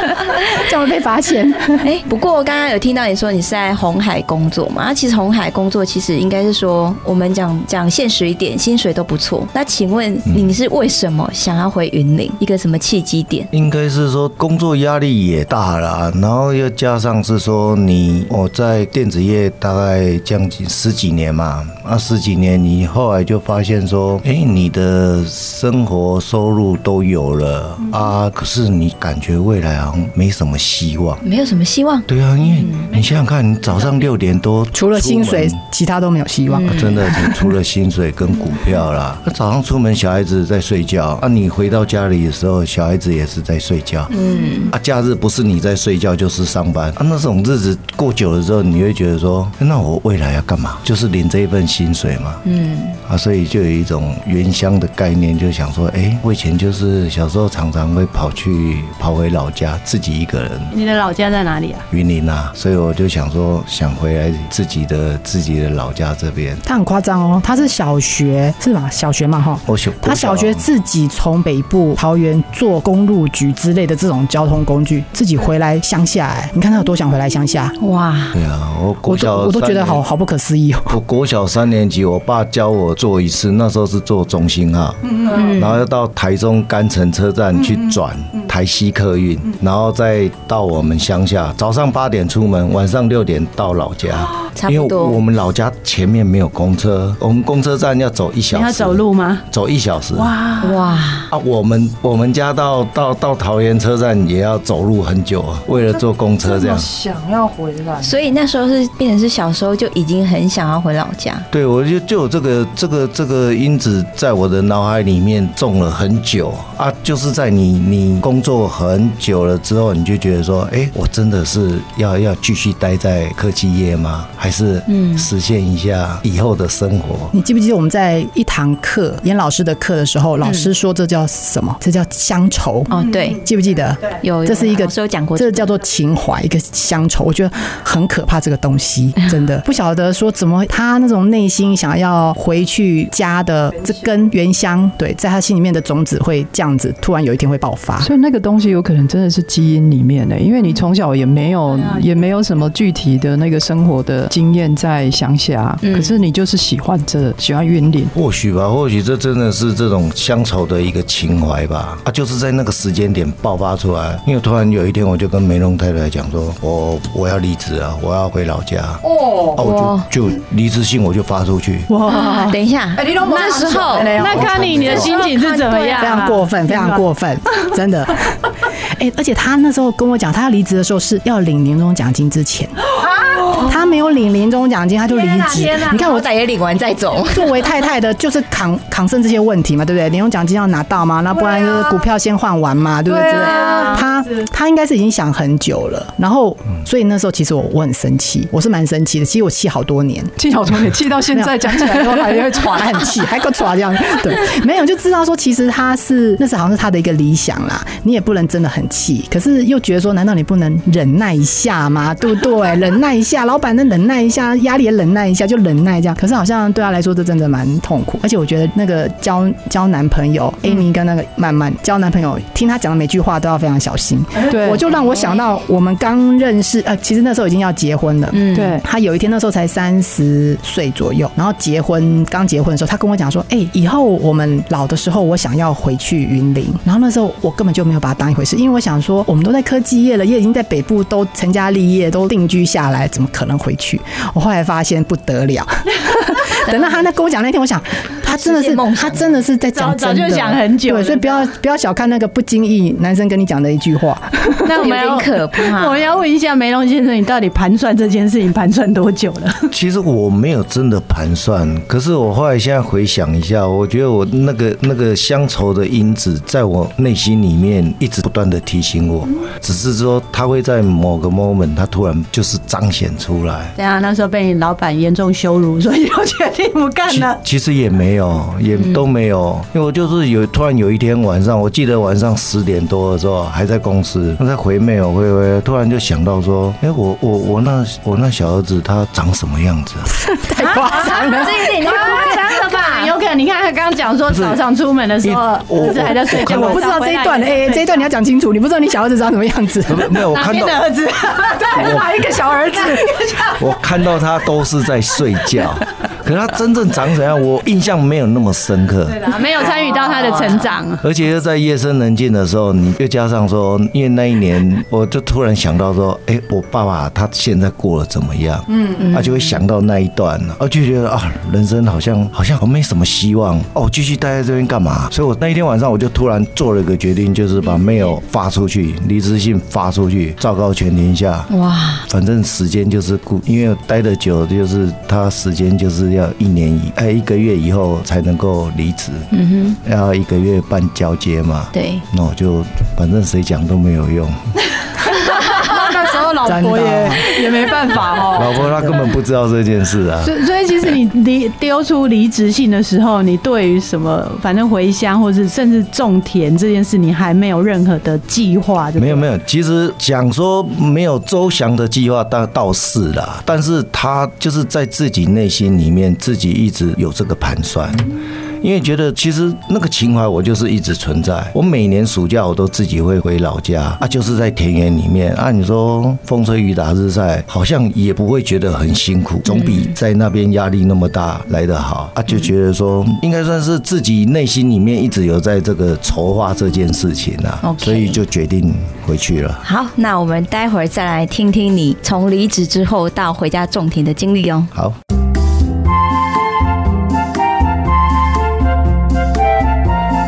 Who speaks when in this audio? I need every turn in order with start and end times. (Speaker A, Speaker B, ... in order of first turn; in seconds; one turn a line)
Speaker A: 0.4-1.9
Speaker B: 1.8-13.5
Speaker C: 13.5-31.2
Speaker B: 31.2-32.9
Speaker C: 32.1-35.6
Speaker A: 34.7-37.1
Speaker B: 36.5-37.1
Speaker C: 36.7-44.1
Speaker B: 44.1-44.7
Speaker C: 44.7-52.4
Speaker B: 52.4-53.0
Speaker C: 53.0-60.8
Speaker D: 60.7-61.9
Speaker C: 61.9-66.6
Speaker A: 66.7-77.8
Speaker C: 69.7-70.6
Speaker B: 77.8-78.4
Speaker C: 78.3-80.0
Speaker A: 79.1-81.0
Speaker C: 80.9-100.3
Speaker B: 85.2-85.8
Speaker B: 94.5-95.2
Speaker D: 98.5-99.4
Speaker D: 100.1-100.9
Speaker B: 100.6-101.3
Speaker C: 101.3-106.9
Speaker E: 105.7-108.2
Speaker B: 108.0-111.5
Speaker C: 111.5-127.3
Speaker B: 124.9-125.3
Speaker A: 127.3-148.1
Speaker B: 130.4-130.7
Speaker B: 132.9-133.4
Speaker B: 134.2-135.7
Speaker E: 148.0-158.1
Speaker B: 155.8-156.2
Speaker C: 158.1-171.9
Speaker E: 169.0-169.6
Speaker B: 169.6-170.1
Speaker D: 171.9-172.5
Speaker E: 172.0-175.1
Speaker B: 172.1-174.2
Speaker D: 173.3-177.0
Speaker C: 174.2-175.2
Speaker B: 175.2-176.2
Speaker A: 176.0-182.8
Speaker E: 183.0-183.6
Speaker A: 183.5-186.3
Speaker D: 185.1-186.1
Speaker B: 185.8-187.6
Speaker A: 187.3-200.3
Speaker E: 191.4-191.8
Speaker E: 193.1-194.0
Speaker D: 193.5-194.1
Speaker E: 200.4-203.1
Speaker A: 201.3-254.7
Speaker E: 224.5-224.8
Speaker B: 224.9-225.4
Speaker B: 228.3-228.8
Speaker E: 228.5-228.8
Speaker B: 246.6-247.0
Speaker B: 248.2-249.4
Speaker D: 249.7-251.5
Speaker D: 254.6-259.7
Speaker B: 254.8-256.1
Speaker C: 259.7-273.7
Speaker D: 273.8-277.4
Speaker C: 277.1-290.2
Speaker A: 290.2-292.4
Speaker B: 290.6-293.1
Speaker D: 290.7-298.1
Speaker C: 294.3-294.6
Speaker C: 295.2-296.9
Speaker A: 296.3-300.1
Speaker C: 299.9-300.9
Speaker D: 300.3-302.0
Speaker C: 301.7-302.1
Speaker E: 301.7-303.3
Speaker D: 302.7-303.0
Speaker C: 303.6-309.3
Speaker D: 309.1-311.0
Speaker B: 309.9-310.7
Speaker C: 311.0-331.5
Speaker B: 319.0-319.6
Speaker B: 331.5-332.1
Speaker C: 332.1-339.3
Speaker B: 339.3-339.8
Speaker C: 339.8-344.4
Speaker B: 341.7-342.0
Speaker E: 345.2-348.9
Speaker A: 346.4-347.3
Speaker C: 348.3-350.4
Speaker D: 350.2-359.2
Speaker C: 359.0-368.1
Speaker C: 368.6-389.6
Speaker B: 379.5-379.9
Speaker B: 387.6-388.2
Speaker B: 389.6-394.7